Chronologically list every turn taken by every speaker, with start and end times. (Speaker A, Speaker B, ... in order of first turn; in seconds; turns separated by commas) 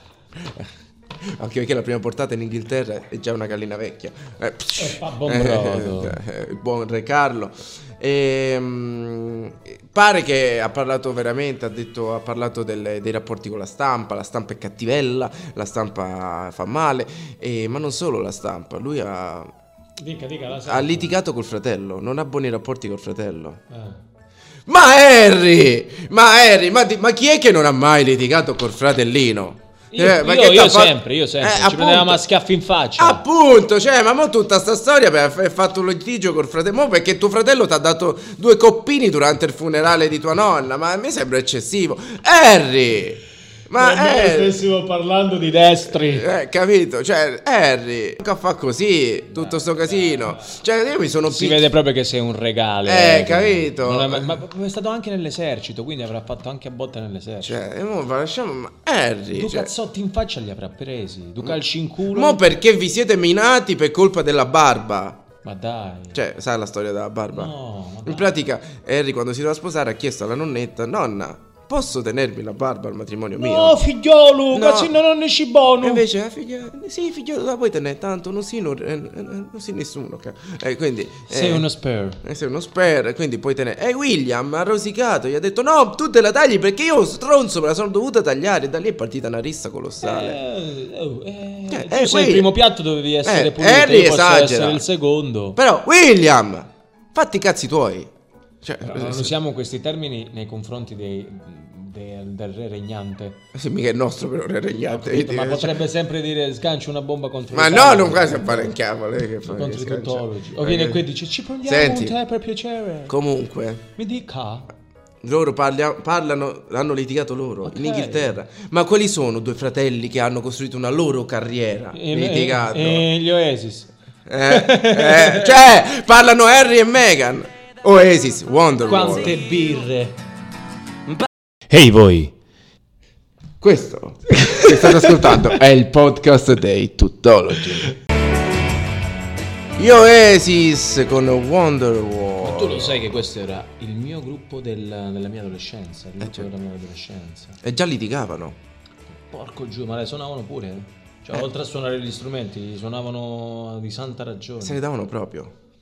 Speaker A: 0.3-19.5, Speaker B: 4.8-6.2, Speaker B: 20.0-21.1, Speaker A: 20.5-23.6, Speaker B: 23.7-24.0, Speaker A: 24.7-32.2, Speaker B: 29.9-33.2, Speaker A: 33.0-44.6, Speaker B: 43.8-46.3, Speaker A: 45.9-51.7, Speaker B: 49.3-50.3, Speaker B: 51.2-57.6, Speaker A: 52.8-54.4, Speaker A: 57.4-59.7, Speaker B: 59.3-62.4, Speaker A: 62.1-65.2, Speaker B: 65.4-66.2, Speaker A: 66.1-67.5, Speaker B: 67.3-68.3, Speaker A: 68.0-73.8, Speaker B: 73.4-76.0, Speaker A: 74.5-74.9, Speaker A: 75.8-81.7, Speaker B: 81.3-82.2, Speaker A: 82.2-90.4, Speaker B: 90.0-95.6, Speaker A: 91.7-92.6, Speaker A: 93.2-94.8, Speaker A: 95.5-99.3, Speaker B: 98.8-103.4, Speaker A: 103.5-105.8, Speaker B: 104.9-108.8, Speaker A: 107.5-111.0, Speaker B: 109.4-113.1, Speaker A: 111.6-112.2, Speaker A: 113.1-113.8, Speaker B: 114.0-114.7, Speaker A: 115.2-123.0, Speaker B: 117.6-118.4, Speaker B: 121.9-123.9, Speaker A: 124.3-129.3, Speaker B: 124.4-125.7, Speaker B: 128.8-130.2, Speaker B: 131.7-132.3, Speaker A: 133.6-137.9, Speaker B: 134.4-135.4, Speaker A: 139.8-143.1, Speaker B: 142.4-147.6, Speaker A: 146.2-146.5, Speaker A: 147.6-148.6, Speaker B: 149.3-154.8, Speaker A: 154.6-155.5